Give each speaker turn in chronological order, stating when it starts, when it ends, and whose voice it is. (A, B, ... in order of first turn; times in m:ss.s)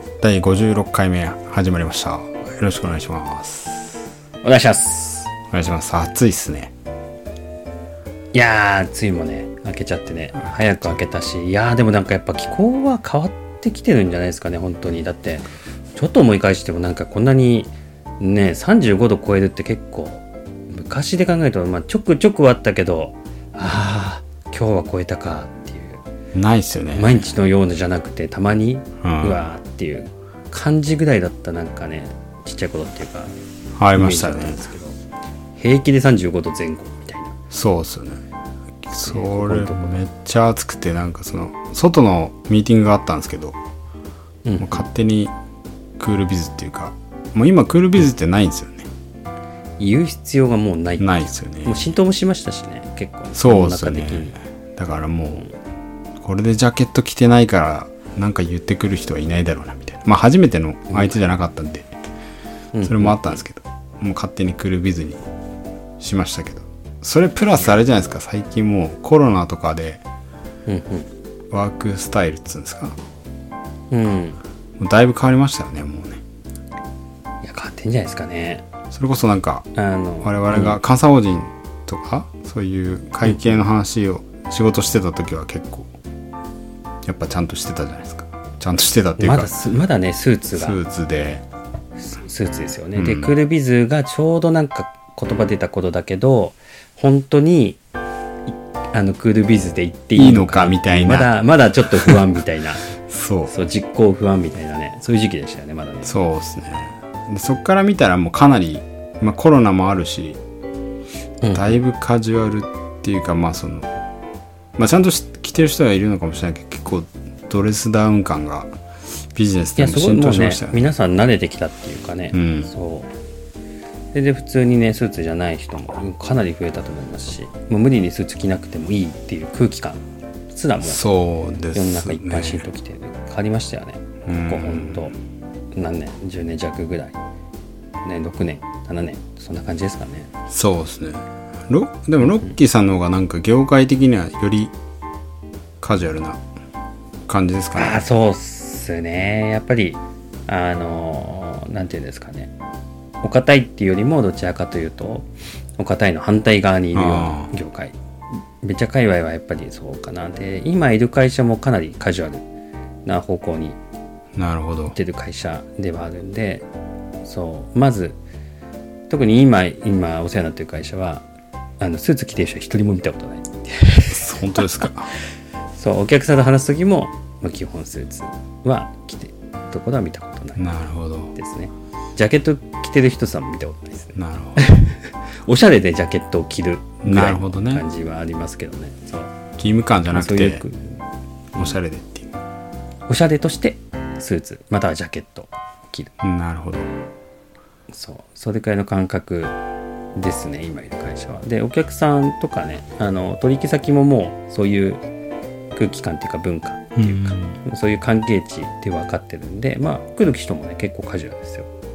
0:00.2-0:04.0 A
0:04.4-0:05.3 B
0:05.5-0:06.7 A
0:08.3-0:26.0 B
0:10.4-0:11.0 A
0:26.3-0:27.3 A
0:27.0-0:33.4 B
0:29.0-0:29.5 A
0:33.8-0:34.6 A
0:33.9-0:35.0 B
0:35.6-0:37.4 B
0:37.5-0:38.2 A
0:38.8-0:43.6 A
0:39.0-0:40.0 B
0:44.4-0:44.8 B
0:44.6-0:45.3 A
0:46.0-0:48.9 A
0:49.8-0:54.4 B
0:51.0-0:51.9 A
0:53.3-0:55.4 A
0:56.2-1:01.9 A
1:02.7-1:03.4 B
1:02.8-1:05.2 A
1:06.0-1:10.0 A
1:10.6-1:11.1 B
1:11.5-1:13.0 A
1:13.9-1:14.4 B
1:14.8-1:16.2 A
1:17.4-1:18.6 B
1:18.9-1:19.7 A
1:19.7-1:20.8 B
1:20.2-1:25.9 A
1:27.0-1:29.5 A
1:29.2-1:30.8 B
1:30.6-1:31.4 A
1:32.0-1:37.8 B
1:32.9-1:33.3 A
1:38.5-1:42.8 B
1:40.2-1:41.3 A
1:41.9-1:42.2 A
1:43.0-1:43.5 A
1:43.5-1:46.1 B
1:46.0-1:50.4 A
1:51.4-1:51.8 B
1:51.5-1:53.9 A
1:54.8-1:58.7 A
1:59.3-2:00.8 A
1:59.8-2:03.1 B
2:02.3-2:02.7 A
2:04.1-2:11.0 B
2:10.8-2:12.6 A
2:11.7-2:15.1 B
2:14.2-2:15.1 A
2:15.7-2:17.2 B
2:18.0-2:20.3 B
2:20.5-2:24.7 A
2:25.8-2:26.4 A
2:27.3-2:28.0 A
2:27.7-2:32.5 B
2:33.2-2:38.0 B
2:36.9-2:37.5 A
2:38.6-2:42.4 B
2:43.0-2:43.8 B
2:44.4-2:45.0 A
2:44.9-2:46.6 B
2:47.2-2:48.2 B
2:49.1-2:51.2 B
2:51.8-2:54.9 B
2:54.1-2:55.1 A
2:55.8-3:00.6 B
3:00.6-3:01.3 A
3:01.3-3:09.3 B
3:04.1-3:04.7 A
3:07.0-3:07.8 A
3:09.6-3:10.6 A
3:10.1-3:10.9 B
3:11.6-3:12.3 A
3:13.1-3:16.1 B
3:16.2-3:16.9 A
3:17.9-3:19.6 B
3:20.1-3:25.0 B
3:25.7-3:31.7 B
3:27.0-3:27.6 A